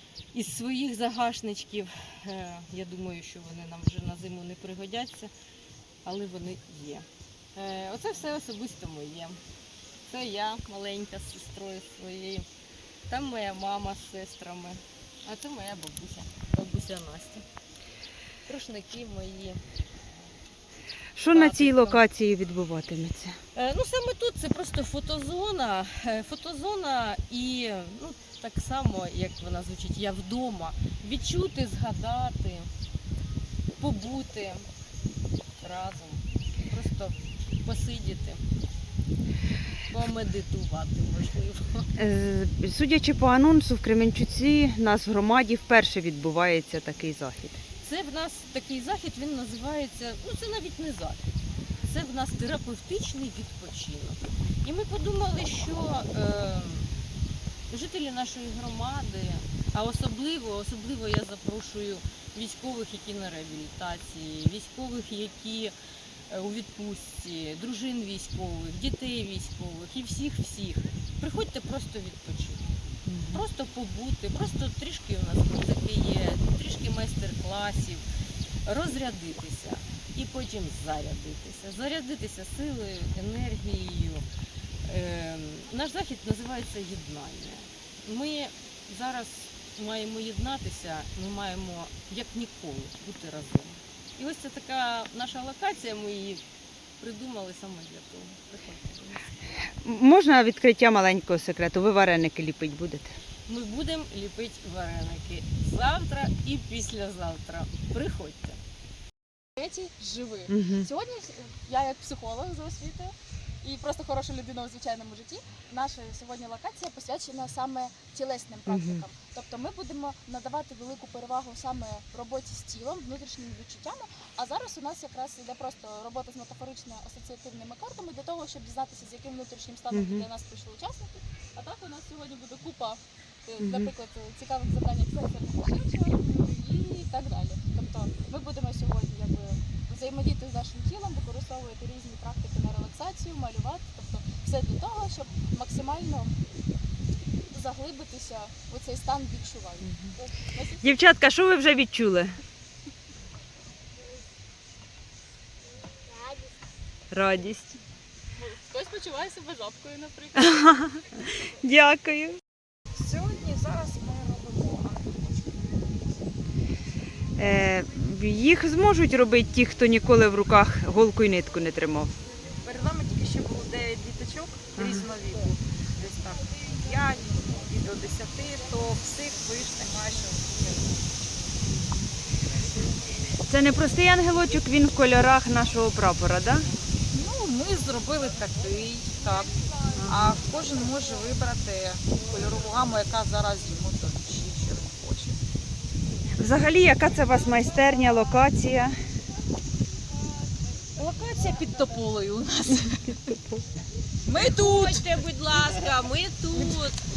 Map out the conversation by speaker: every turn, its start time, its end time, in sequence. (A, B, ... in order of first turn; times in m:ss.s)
0:00.3-0:05.3 A
0:06.0-0:09.4 A
0:10.0-0:12.4 A
0:13.1-0:17.4 A
0:18.4-0:19.6 A
0:21.2-0:23.3 B
0:21.3-0:22.0 A
0:23.5-0:32.7 A
0:33.8-0:34.7 A
0:35.6-0:38.4 A
0:39.9-0:41.9 A
0:42.0-0:47.6 B
0:47.8-0:51.2 A
0:51.8-0:56.9 A
0:57.7-1:05.7 A
1:06.3-1:12.6 A
1:13.1-1:13.4 B
1:13.3-1:18.0 A
1:18.6-1:24.2 A
1:24.8-1:36.4 A
1:37.0-1:39.3 A
1:39.8-1:43.1 B
1:43.5-1:48.6 A
1:49.6-2:26.3 C
1:50.5-1:50.9 B
1:58.7-1:59.0 B
2:09.9-2:10.2 B
2:13.6-2:13.9 B
2:27.5-2:30.9 C
2:30.8-2:32.4 B
2:37.1-2:37.8 B
2:38.4-2:40.7 C
2:40.5-2:42.4 B
2:43.0-2:45.3 D
2:47.4-2:52.1 B
2:52.6-3:01.0 D
2:54.8-2:55.0 B
3:03.4-3:06.7 B
3:07.1-3:09.5 D
3:10.0-3:10.4 B
3:10.1-3:15.4 D
3:16.4-3:18.9 B
3:21.0-3:23.2 D
3:24.2-3:25.2 D
3:24.3-3:27.0 A